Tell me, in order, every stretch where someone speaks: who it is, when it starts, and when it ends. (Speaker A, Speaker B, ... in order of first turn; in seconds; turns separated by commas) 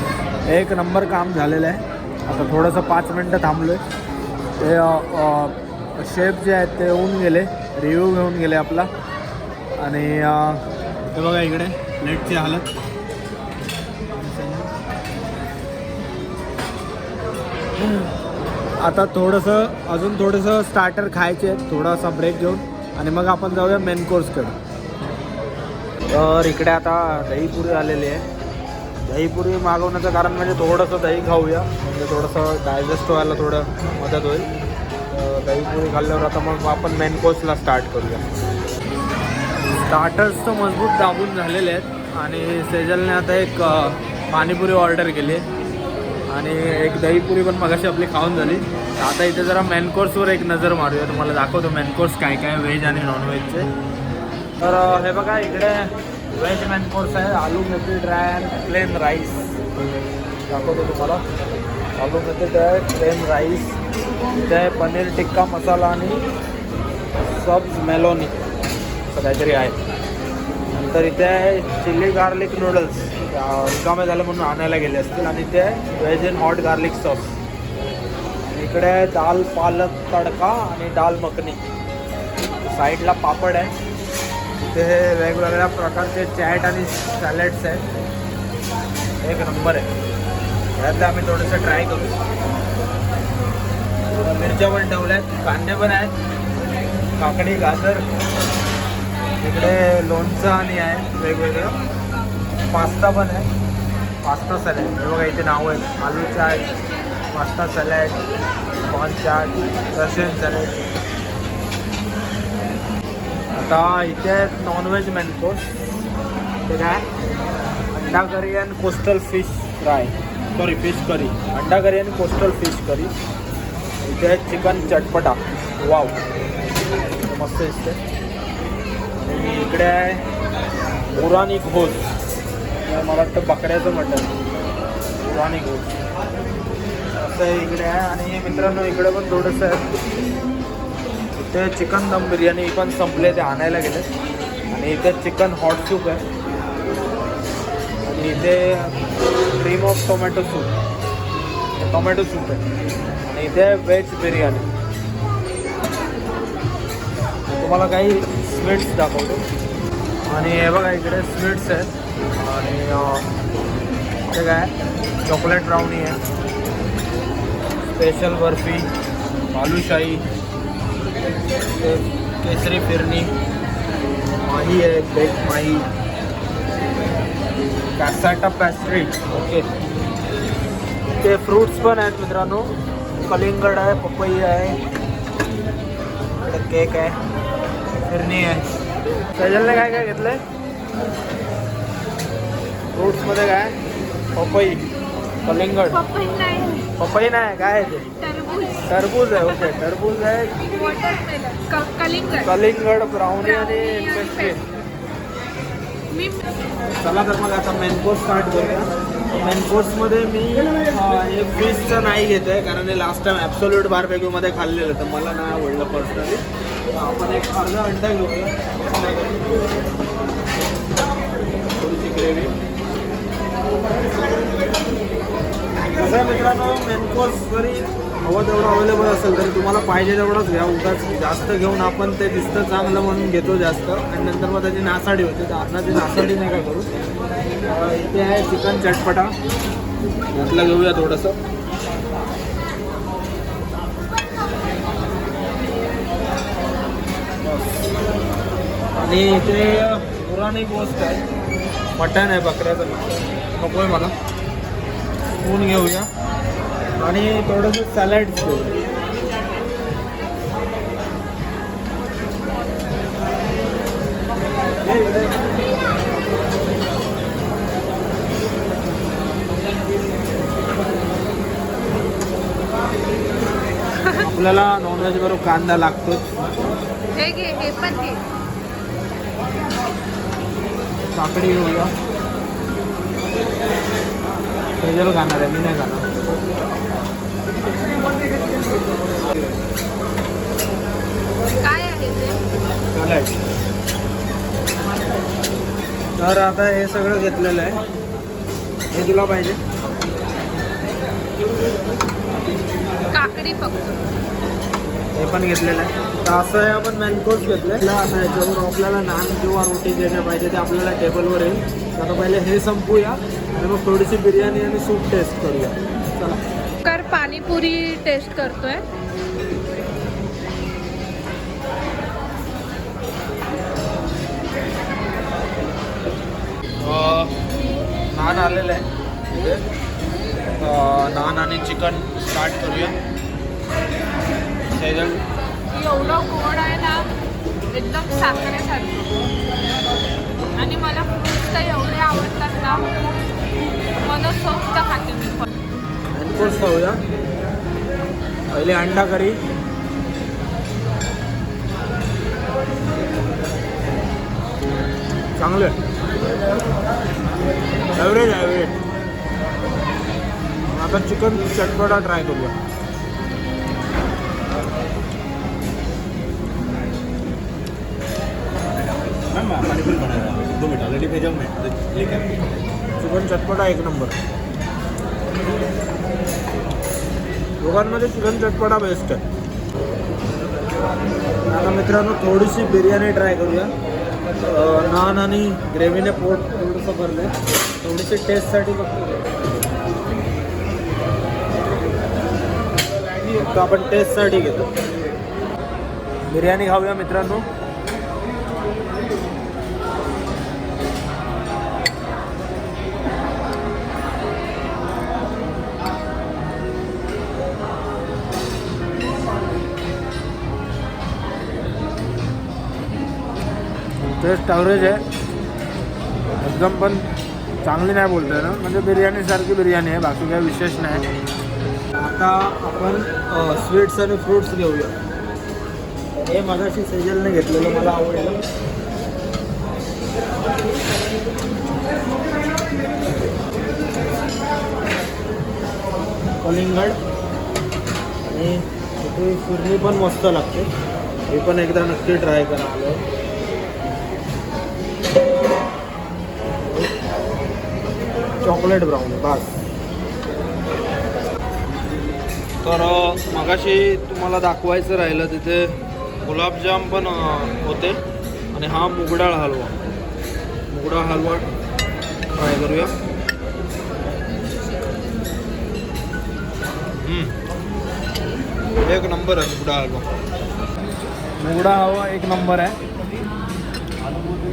Speaker A: 0.5-3.8, Speaker A: 4.6-8.9, Speaker A: 9.8-12.7, Speaker A: 14.2-14.7, Speaker A: 17.8-18.1, Speaker A: 18.8-24.6, Speaker A: 26.1-28.3, Speaker A: 29.1-34.5, Speaker A: 35.1-38.2, Speaker A: 39.6-45.5, Speaker A: 46.3-53.7, Speaker A: 54.6-59.6, Speaker A: 60.5-61.2, Speaker A: 62.0-63.8, Speaker A: 64.5-66.3, Speaker A: 67.3-68.4, Speaker A: 69.1-69.8, Speaker A: 70.8-77.3, Speaker A: 78.5-81.6, Speaker A: 82.6-83.7, Speaker A: 84.7-87.8, Speaker A: 89.2-89.9, Speaker A: 90.8-92.2, Speaker A: 94.2-96.1, Speaker A: 97.2-98.0, Speaker A: 99.4-101.8, Speaker A: 102.6-103.5, Speaker A: 104.2-106.7, Speaker A: 107.3-108.2, Speaker A: 108.8-110.8, Speaker A: 113.5-115.7, Speaker A: 116.7-117.1, Speaker A: 117.9-123.1, Speaker A: 124.0-126.2, Speaker A: 127.2-128.0, Speaker A: 129.2-130.2, Speaker A: 131.1-132.0, Speaker A: 132.8-134.3, Speaker A: 135.2-136.0, Speaker A: 137.2-139.9, Speaker A: 141.4-144.1, Speaker A: 144.7-146.2, Speaker A: 148.1-149.0, Speaker A: 149.5-150.7, Speaker A: 151.8-152.7, Speaker A: 153.2-154.7, Speaker A: 157.6-159.4, Speaker A: 160.3-163.3, Speaker A: 164.3-164.7, Speaker A: 165.2-166.2, Speaker A: 167.9-168.9, Speaker A: 169.5-170.2, Speaker A: 171.8-173.3, Speaker A: 174.4-175.9, Speaker A: 178.0-179.7, Speaker A: 181.2-184.8, Speaker A: 186.4-187.2, Speaker A: 188.1-188.7, Speaker A: 189.3-190.4, Speaker A: 192.9-193.8, Speaker A: 194.3-194.8, Speaker A: 195.4-196.0, Speaker B: 195.9-196.9, Speaker A: 197.0-198.1, Speaker B: 198.2-198.9, Speaker A: 198.8-200.6, Speaker B: 200.6-202.5, Speaker A: 202.4-204.6, Speaker B: 203.4-204.6, Speaker B: 206.1-206.4, Speaker A: 207.0-219.8, Speaker A: 221.7-222.5, Speaker A: 225.9-236.9, Speaker A: 237.7-239.3, Speaker A: 240.3-241.4, Speaker A: 247.4-247.8, Speaker A: 249.0-251.2, Speaker A: 252.0-254.1, Speaker A: 255.4-256.1, Speaker A: 257.0-258.8, Speaker A: 264.8-265.4, Speaker A: 274.2-276.3, Speaker B: 277.2-278.2, Speaker A: 281.1-281.9, Speaker A: 284.8-286.1, Speaker B: 291.6-292.4, Speaker A: 292.9-293.3, Speaker A: 296.2-297.8, Speaker A: 298.9-299.6, Speaker B: 303.1-304.1, Speaker A: 305.1-316.4, Speaker B: 316.8-318.8, Speaker A: 326.8-327.4, Speaker A: 328.1-329.6, Speaker A: 330.6-332.9, Speaker A: 334.6-335.2, Speaker B: 335.7-337.1, Speaker B: 337.7-339.2, Speaker B: 340.6-342.9, Speaker B: 344.0-345.5, Speaker A: 346.1-347.0, Speaker A: 348.5-349.4, Speaker A: 355.4-355.8, Speaker A: 358.0-358.8, Speaker A: 360.7-362.6, Speaker C: 368.7-372.6, Speaker A: 373.0-374.2, Speaker A: 377.6-379.2, Speaker A: 381.4-383.7, Speaker A: 384.4-389.4, Speaker A: 393.2-394.7, Speaker A: 396.3-397.5, Speaker A: 414.2-415.0, Speaker A: 416.4-417.1, Speaker A: 417.6-421.1, Speaker A: 421.9-424.9, Speaker A: 426.2-428.4, Speaker A: 436.4-437.0, Speaker A: 438.3-440.7, Speaker A: 441.3-443.0, Speaker A: 446.6-446.9, Speaker A: 448.4-449.6, Speaker A: 452.6-458.0, Speaker A: 458.5-459.8, Speaker A: 460.7-461.5, Speaker A: 462.3-462.9, Speaker A: 467.0-467.4, Speaker A: 468.8-470.2, Speaker A: 471.4-472.8